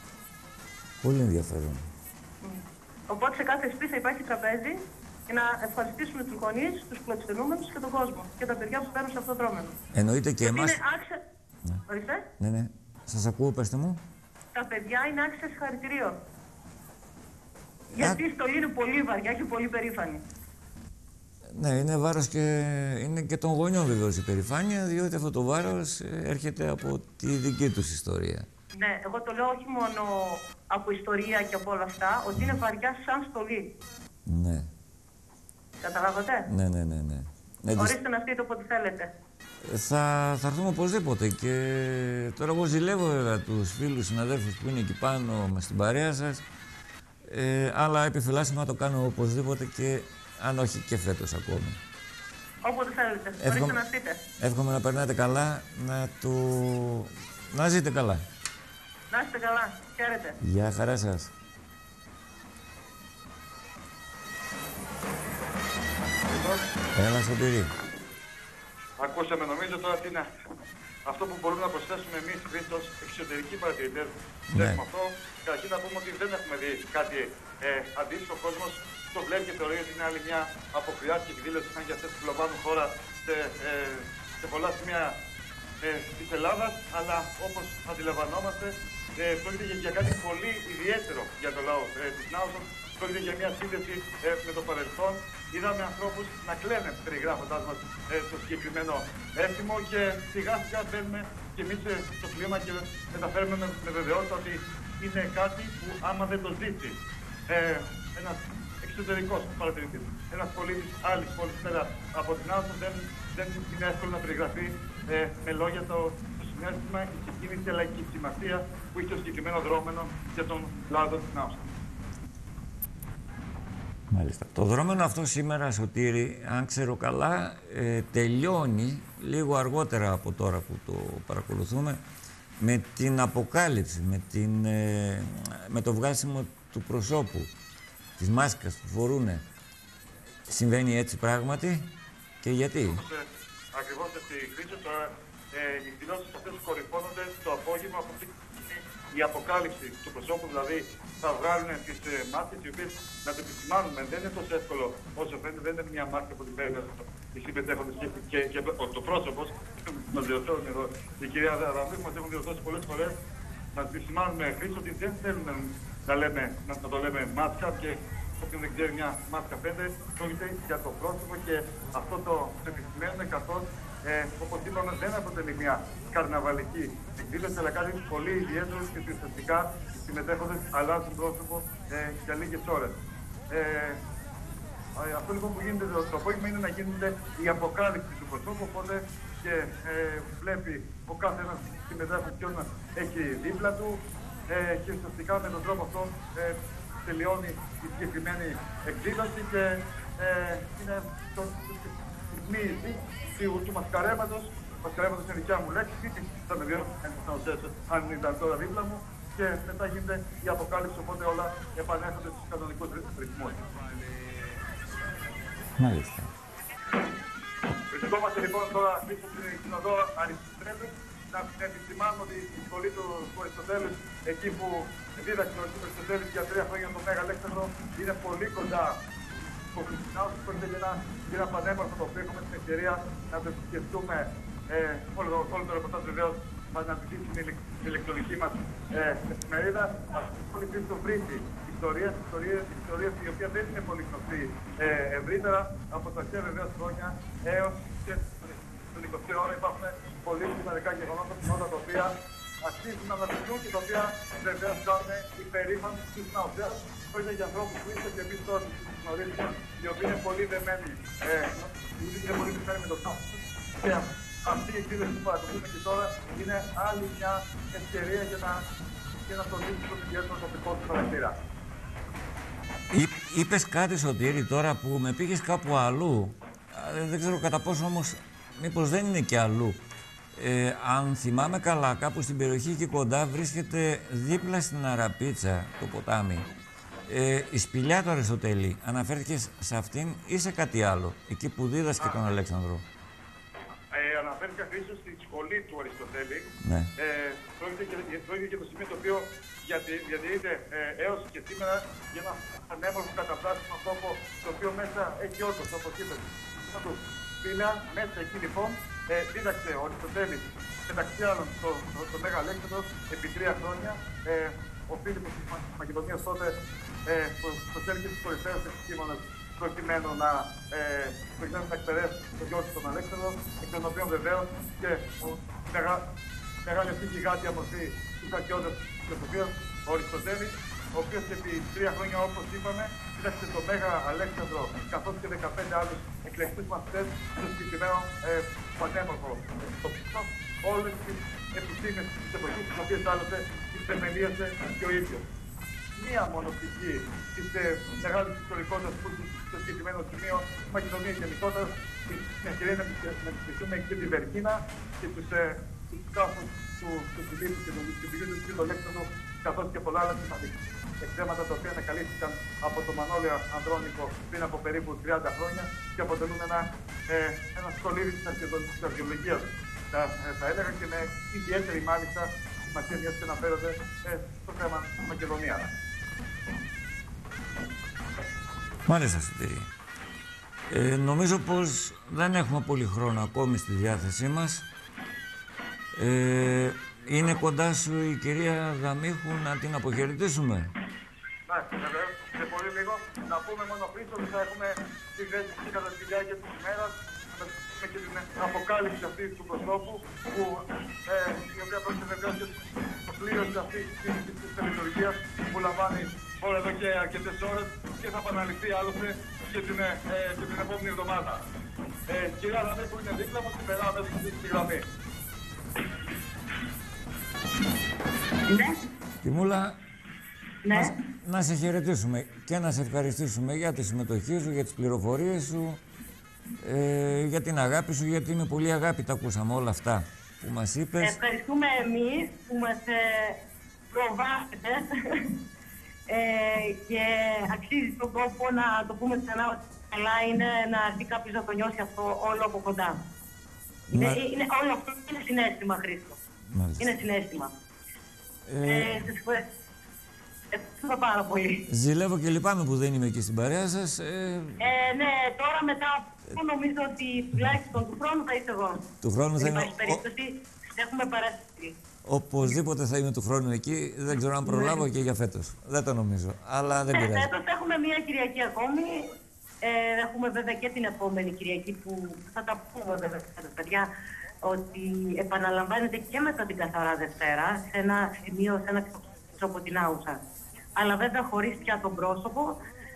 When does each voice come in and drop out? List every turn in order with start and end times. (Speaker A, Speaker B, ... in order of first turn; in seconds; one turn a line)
Speaker A: 1.0-1.9
Speaker B: 2.4-9.7
Speaker A: 9.9-10.8
Speaker B: 10.4-11.2
Speaker B: 11.9-12.2
Speaker A: 12.4-14.0
Speaker B: 14.5-16.1
Speaker A: 17.9-18.2
Speaker B: 17.9-20.2
Speaker A: 21.5-28.5
Speaker B: 28.7-33.7
Speaker A: 32.4-32.6
Speaker A: 34.2-34.7
Speaker B: 35.8-36.5
Speaker A: 36.5-38.0
Speaker B: 37.7-39.1
Speaker A: 39.6-46.4
Speaker A: 47.2-51.8
Speaker B: 52.6-54.2
Speaker A: 53.4-53.8
Speaker A: 54.4-58.2
Speaker B: 59.1-60.4
Speaker A: 60.4-61.3
Speaker C: 66.2-66.6
Speaker A: 66.9-67.7
Speaker C: 69.0-70.3
Speaker C: 71.0-85.1
Speaker A: 74.5-74.8
Speaker C: 85.8-107.0
Speaker C: 107.5-121.6
Speaker A: 124.1-132.0
Speaker A: 132.6-137.5
Speaker A: 138.2-139.4
Speaker A: 140.5-143.0
Speaker C: 142.9-163.1
Speaker C: 163.7-182.9
Speaker C: 183.5-184.0
Speaker C: 184.9-213.6
Speaker A: 215.8-216.3
Speaker C: 217.9-228.9
Speaker C: 229.7-252.1
Speaker C: 252.6-268.6
Speaker C: 269.2-271.3
Speaker A: 272.9-279.8
Speaker A: 280.3-286.5
Speaker A: 287.1-292.8
Speaker C: 293.9-316.5
Speaker A: 296.6-296.9
Speaker C: 317.1-326.0
Speaker C: 326.6-345.2
Speaker C: 345.9-375.7
Speaker A: 378.9-379.7
Speaker A: 380.7-384.6
Speaker A: 385.9-390.7
Speaker C: 391.5-411.4
Speaker C: 412.1-414.8
Speaker D: 418.5-418.8
Speaker A: 419.2-419.8
Speaker D: 420.6-420.9
Speaker A: 420.7-425.8
Speaker A: 426.6-431.2
Speaker D: 431.0-433.4
Speaker D: 433.9-435.3
Speaker D: 436.1-443.0
Speaker A: 443.9-444.2
Speaker D: 443.9-446.2
Speaker A: 446.5-446.9
Speaker D: 446.8-447.5
Speaker A: 448.4-449.1
Speaker D: 448.6-449.4
Speaker D: 450.5-451.7
Speaker A: 451.7-454.7
Speaker D: 454.6-458.9
Speaker A: 459.0-460.0
Speaker D: 459.4-461.8
Speaker A: 462.0-467.3
Speaker D: 464.4-464.8
Speaker D: 466.8-469.0
Speaker D: 469.6-473.9
Speaker D: 474.4-480.2
Speaker D: 480.8-482.6